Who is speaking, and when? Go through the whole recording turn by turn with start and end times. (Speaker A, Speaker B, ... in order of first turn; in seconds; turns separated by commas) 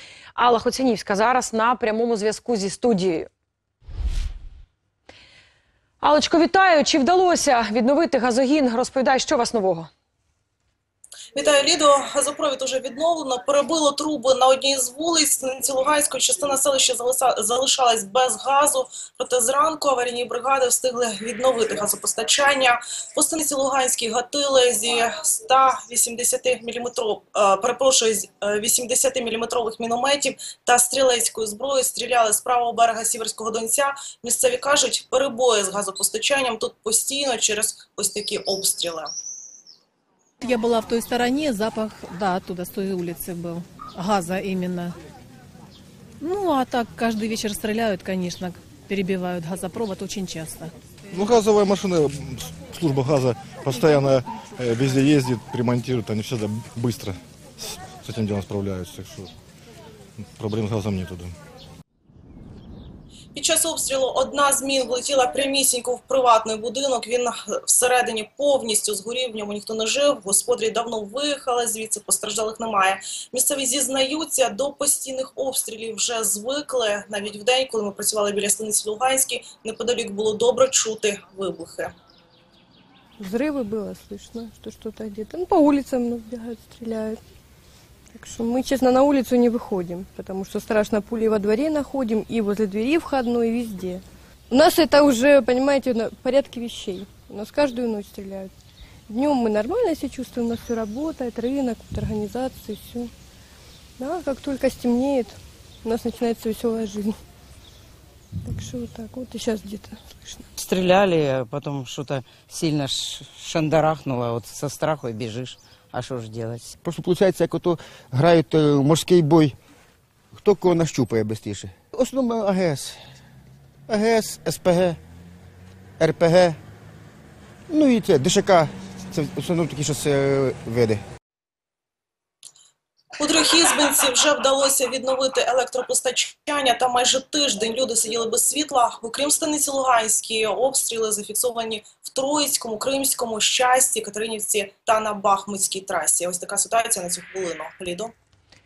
Speaker A: 0.3-3.3, Speaker A: 6.0-9.9, Speaker B: 11.3-39.1, Speaker C: 40.4-45.0, Speaker C: 46.2-50.7, Speaker D: 51.1-59.3, Speaker D: 60.4-61.3, Speaker B: 63.3-81.9, Speaker E: 83.2-87.2, Speaker E: 88.1-98.5, Speaker E: 99.1-103.1, Speaker E: 104.0-107.2, Speaker E: 108.5-110.5, Speaker F: 110.6-116.7, Speaker G: 116.8-119.5, Speaker G: 120.3-123.0, Speaker G: 123.9-125.0, Speaker G: 126.0-126.6, Speaker G: 127.7-131.0, Speaker B: 133.2-148.1